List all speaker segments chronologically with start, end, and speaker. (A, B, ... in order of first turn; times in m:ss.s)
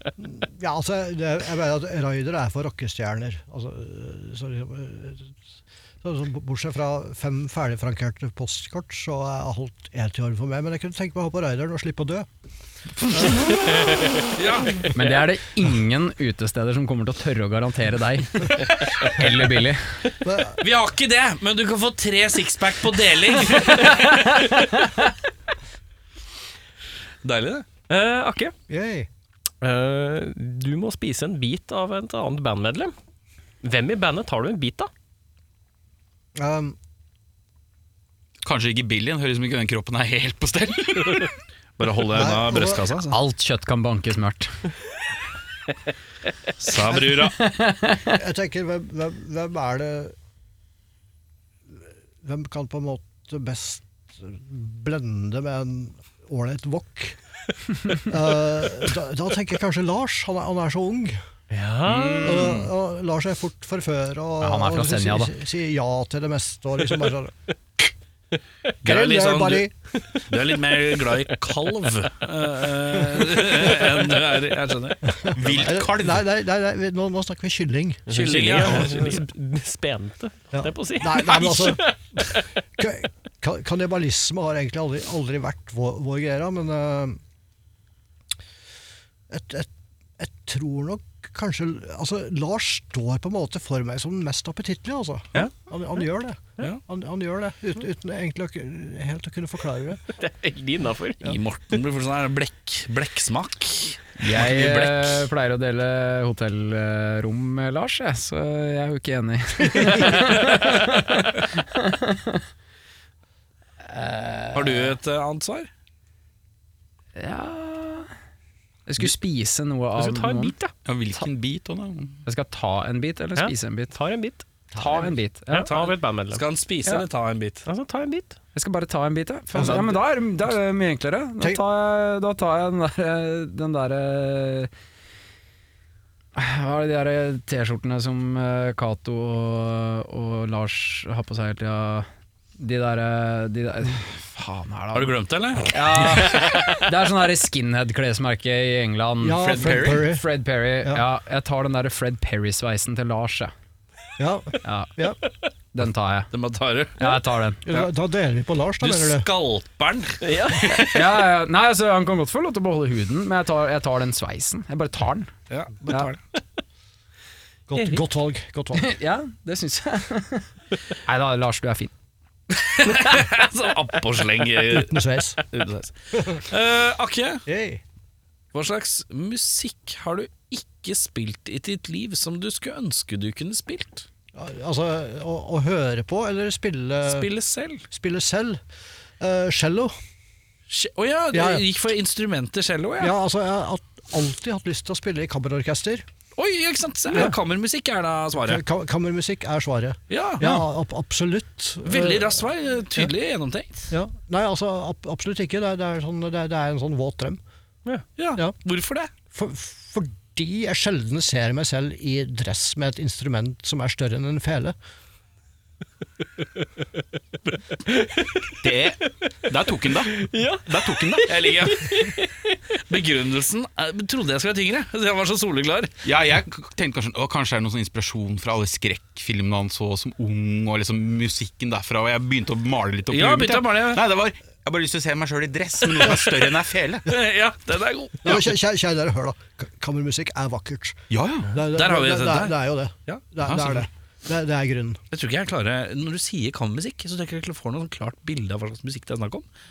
0:00.2-0:05.3 A
0:06.0-0:12.3 A
0:13.1-0:13.4 A
0:14.3-0:14.9 B
0:14.9-0:20.0 C
0:20.2-0:20.6 A
0:20.6-0:24.2 B
0:24.1-0:25.1 C
0:27.2-0:27.6 B
0:27.9-0:28.5 D
0:28.7-0:29.1 A
0:29.6-0:32.9 D
0:33.6-0:34.9 D
0:36.4-0:36.8 A
0:38.4-0:41.4 E
0:41.8-0:43.2 B
0:42.1-0:42.8 A
0:43.1-0:44.6 C
0:46.6-0:47.4 B
0:46.9-0:47.2 A
0:47.3-0:48.2 C
0:48.1-0:50.2 A
0:52.2-0:57.2 A
0:57.9-1:01.2 A
1:01.5-1:02.4 D
1:01.9-1:02.7 E
1:02.2-1:07.3 A
1:04.4-1:05.3 C
1:08.8-1:09.7 B
1:08.8-1:09.7 A
1:10.3-1:15.0 B
1:15.2-1:18.1 A
1:15.3-1:16.2 E
1:18.1-1:22.0 D
1:18.1-1:19.2 B
1:20.5-1:21.9 A
1:21.4-1:21.7 B
1:22.8-1:27.2 A
1:29.3-1:40.0 A
1:40.2-1:41.2 D
1:41.2-1:44.1 B
1:44.2-1:52.4 C
1:44.4-1:45.0 E
1:53.8-1:55.0 C
1:54.5-1:55.7 B
1:57.2-1:58.1 C
1:58.9-2:00.6 C
2:00.0-2:00.7 D
2:00.8-2:02.2 E
2:02.3-2:04.0 C
2:03.4-2:04.4 D
2:04.7-2:05.1 A
2:04.8-2:05.7 C
2:05.5-2:06.4 D
2:05.7-2:07.6 B
2:07.7-2:08.4 D
2:08.6-2:14.7 C
2:09.6-2:10.0 A
2:16.4-2:25.2 C
2:24.9-2:26.5 B
2:25.7-2:33.5 C
2:29.2-2:30.3 A
2:29.4-2:30.1 E
2:34.2-2:35.2 A
2:34.6-2:34.9 C
2:35.7-2:36.3 C
2:36.3-2:37.2 B
2:37.0-2:37.8 C
2:37.7-2:39.3 A
2:38.8-2:41.1 B
2:40.2-2:40.7 D
2:40.7-2:45.3 C
2:45.5-2:46.2 B
2:47.7-2:49.0 A
2:47.8-2:48.0 D
2:48.8-2:51.9 C
2:52.5-2:57.4 B
2:54.7-2:55.4 A
2:56.1-2:56.4 A
2:57.5-2:57.8 A
2:58.5-3:04.1 B
3:04.3-3:07.3 A
3:07.0-3:07.8 B
3:07.9-3:08.6 A
3:09.2-3:09.9 A
3:10.7-3:13.1 B
3:11.3-3:11.6 A
3:13.0-3:16.0 A
3:16.4-3:18.6 B
3:17.1-3:17.4 A
3:18.4-3:22.4 A
3:20.1-3:20.6 B
3:21.8-3:23.9 B
3:23.9-3:27.4 A
3:28.2-3:29.1 B
3:29.3-3:34.8 A
3:37.9-3:38.4 D
3:38.6-3:41.3 E
3:40.1-3:42.6 D
3:41.3-3:42.2 B
3:42.8-3:45.9 B
3:46.0-3:57.0 E
3:53.1-3:54.0 B
3:57.1-3:58.5 B
3:58.2-4:05.0 A
4:01.1-4:01.5 E
4:01.7-4:02.6 B
4:03.4-4:03.9 E
4:05.1-4:09.4 B